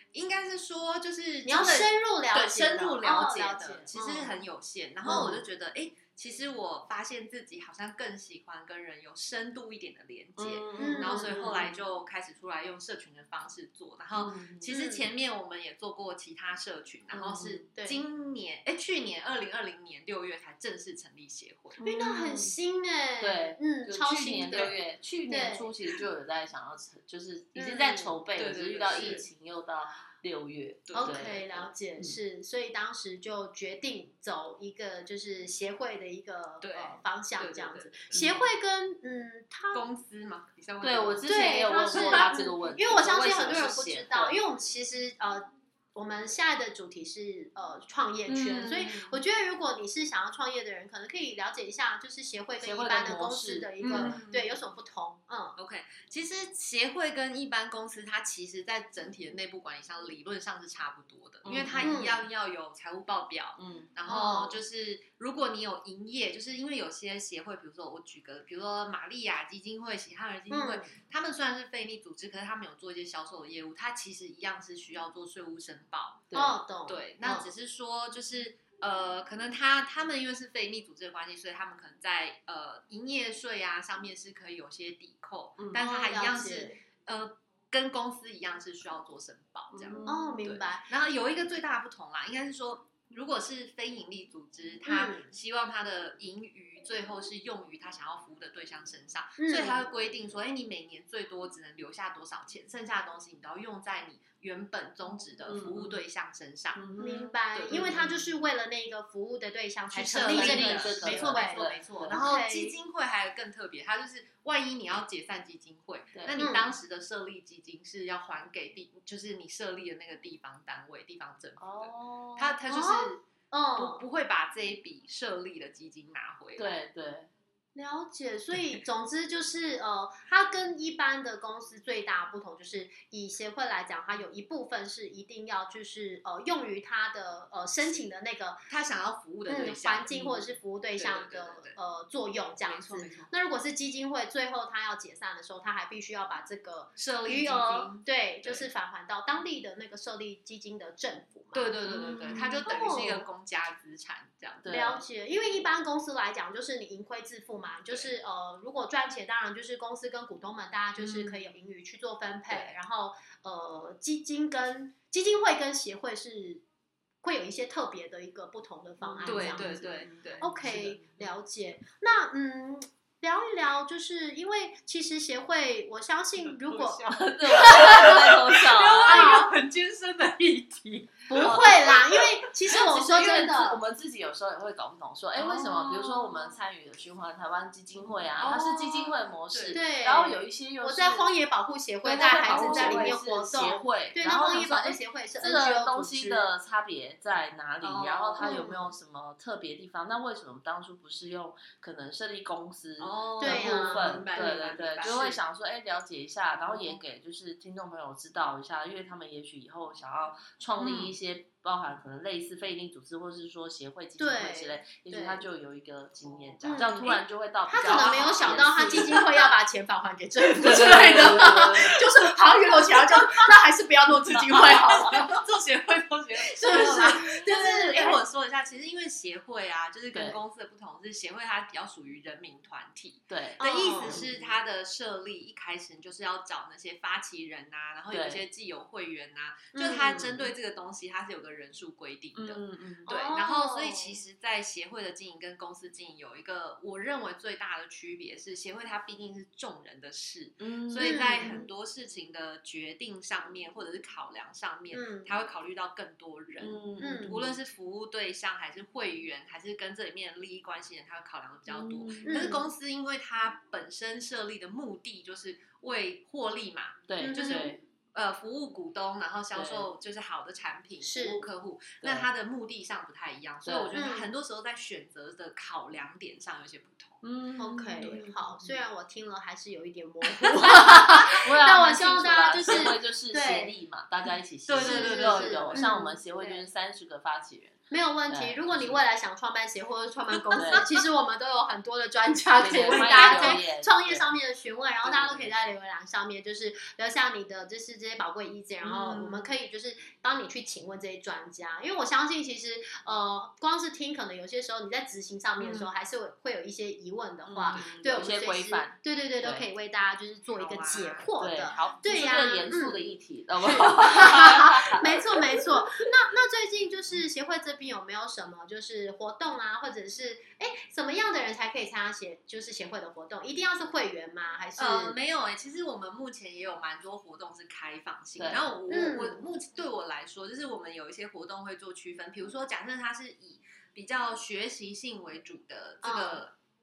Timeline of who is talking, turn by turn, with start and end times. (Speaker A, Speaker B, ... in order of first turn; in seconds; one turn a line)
Speaker A: 0.1-21.8
Speaker B: 1.4-4.4
Speaker B: 5.0-5.4
Speaker C: 5.1-5.4
Speaker C: 10.4-11.8
Speaker B: 10.8-11.6
Speaker C: 14.1-14.7
Speaker B: 14.7-15.1
Speaker C: 17.1-17.6
Speaker B: 17.8-18.0
Speaker C: 21.8-22.6
Speaker B: 21.8-25.7
Speaker C: 23.2-32.2
Speaker A: 24.1-24.8
Speaker B: 27.6-28.2
Speaker A: 28.4-29.2
Speaker B: 28.9-29.2
Speaker A: 30.9-31.4
Speaker B: 30.9-39.8
Speaker A: 36.6-38.3
Speaker C: 38.1-38.4
Speaker A: 39.7-42.3
Speaker C: 40.8-44.4
Speaker B: 41.2-55.5
Speaker A: 48.3-49.2
Speaker C: 52.6-54.2
Speaker A: 53.8-54.6
Speaker A: 55.6-76.3
Speaker C: 61.4-62.0
Speaker B: 61.8-62.2
Speaker C: 63.6-63.9
Speaker B: 64.1-64.6
Speaker B: 70.5-70.9
Speaker C: 76.3-76.6
Speaker B: 76.3-77.5
Speaker A: 76.9-106.9
Speaker B: 85.7-86.8
Speaker C: 89.7-90.4
Speaker B: 90.0-90.8
Speaker B: 94.9-95.3
Speaker B: 99.4-99.8
Speaker C: 105.5-106.0
Speaker C: 106.8-108.1
Speaker B: 107.0-112.8
Speaker A: 107.5-108.2
Speaker A: 109.9-123.2
Speaker C: 110.3-112.2
Speaker C: 116.2-116.4
Speaker B: 116.4-116.7
Speaker C: 121.6-122.6
Speaker B: 122.7-124.0
Speaker A: 123.8-126.7
Speaker C: 126.6-127.3
Speaker B: 127.8-138.6
Speaker A: 138.7-141.8
Speaker B: 139.5-153.3
Speaker A: 142.7-143.3
Speaker A: 146.9-148.7
Speaker A: 151.5-154.7
Speaker C: 151.9-152.6
Speaker C: 154.6-155.0
Speaker B: 154.7-166.6
Speaker A: 161.0-161.4
Speaker B: 167.2-169.8
Speaker C: 169.1-170.1
Speaker A: 169.2-171.3
Speaker B: 170.4-178.3
Speaker A: 176.5-181.4
Speaker C: 177.1-179.4
Speaker B: 179.0-179.5
Speaker B: 181.3-183.8
Speaker C: 181.4-191.3
Speaker A: 185.3-186.3
Speaker A: 188.4-189.8
Speaker B: 189.7-196.5
Speaker C: 192.0-219.3
Speaker A: 192.4-193.2
Speaker A: 197.8-198.7
Speaker B: 198.4-198.9
Speaker A: 203.0-205.4
Speaker B: 203.4-204.5
Speaker A: 206.6-207.0
Speaker A: 210.8-211.1
Speaker B: 214.2-215.4
Speaker B: 216.6-225.4
Speaker A: 217.8-219.3
Speaker C: 220.6-222.1
Speaker A: 224.5-277.2
Speaker B: 226.4-228.2
Speaker C: 230.1-230.4
Speaker C: 233.3-234.6
Speaker B: 233.6-234.2
Speaker C: 238.1-238.4
Speaker B: 239.7-240.3
Speaker C: 240.1-240.5
Speaker C: 242.3-243.1
Speaker B: 243.1-244.2
Speaker C: 250.6-251.6
Speaker B: 251.0-251.7
Speaker B: 254.9-255.3
Speaker C: 256.6-257.6
Speaker B: 257.0-257.4
Speaker C: 261.7-262.6
Speaker B: 262.2-262.6
Speaker C: 267.1-267.8
Speaker B: 267.2-267.8
Speaker C: 269.5-269.9
Speaker B: 271.0-271.4
Speaker C: 272.0-272.3
Speaker C: 273.6-274.1
Speaker B: 273.9-274.3
Speaker C: 277.2-278.6
Speaker B: 277.6-283.7
Speaker A: 278.0-278.3
Speaker C: 280.4-289.0
Speaker A: 284.7-285.9
Speaker B: 284.8-286.6
Speaker B: 287.9-313.0
Speaker A: 290.4-290.9
Speaker C: 290.6-290.9
Speaker C: 292.6-294.3
Speaker A: 292.7-293.6
Speaker A: 298.9-299.4
Speaker C: 307.4-309.7
Speaker A: 307.7-308.2
Speaker A: 310.5-311.3
Speaker C: 311.4-315.7
Speaker B: 313.6-325.1
Speaker A: 324.8-336.6
Speaker C: 328.4-328.7
Speaker B: 328.9-329.4
Speaker B: 336.0-336.4